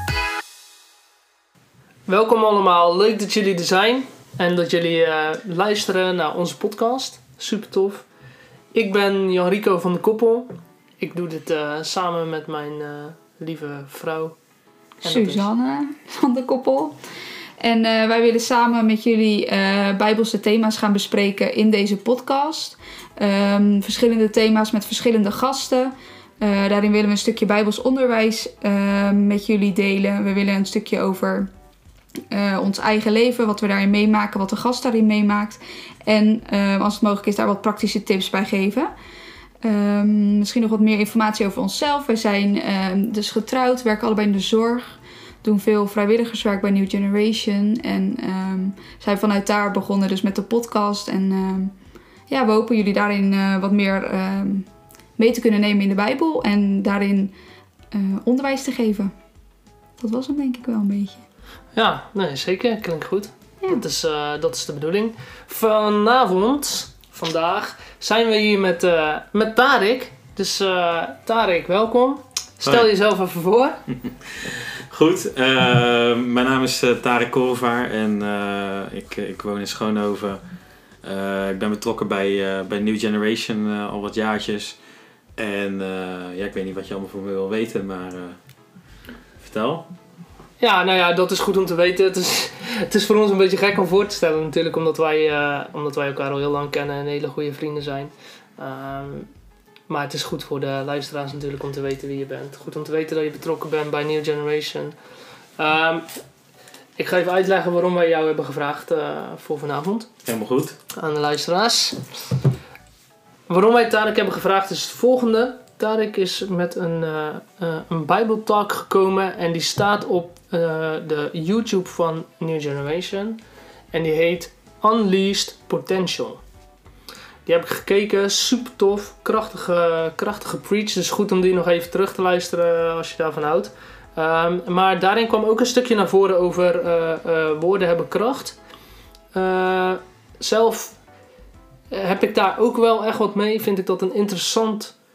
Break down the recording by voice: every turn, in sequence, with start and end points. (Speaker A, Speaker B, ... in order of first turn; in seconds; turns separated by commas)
Speaker A: 2.1-8.1, Speaker A: 8.7-14.4, Speaker A: 15.0-15.5, Speaker B: 15.0-17.0, Speaker B: 17.6-31.5, Speaker B: 32.3-38.9, Speaker B: 39.6-51.7, Speaker B: 52.3-57.3, Speaker B: 57.9-59.1, Speaker B: 60.0-61.2, Speaker A: 61.7-73.8, Speaker C: 74.0-80.4, Speaker C: 81.0-84.8, Speaker C: 85.4-88.4, Speaker C: 89.4-89.9, Speaker A: 90.6-99.3, Speaker A: 99.9-105.0, Speaker A: 105.6-106.2, Speaker A: 107.0-110.1, Speaker C: 110.3-110.8, Speaker A: 110.9-112.2, Speaker A: 113.5-123.4, Speaker A: 123.9-126.4, Speaker A: 127.5-138.6, Speaker A: 139.3-141.0, Speaker A: 141.9-144.9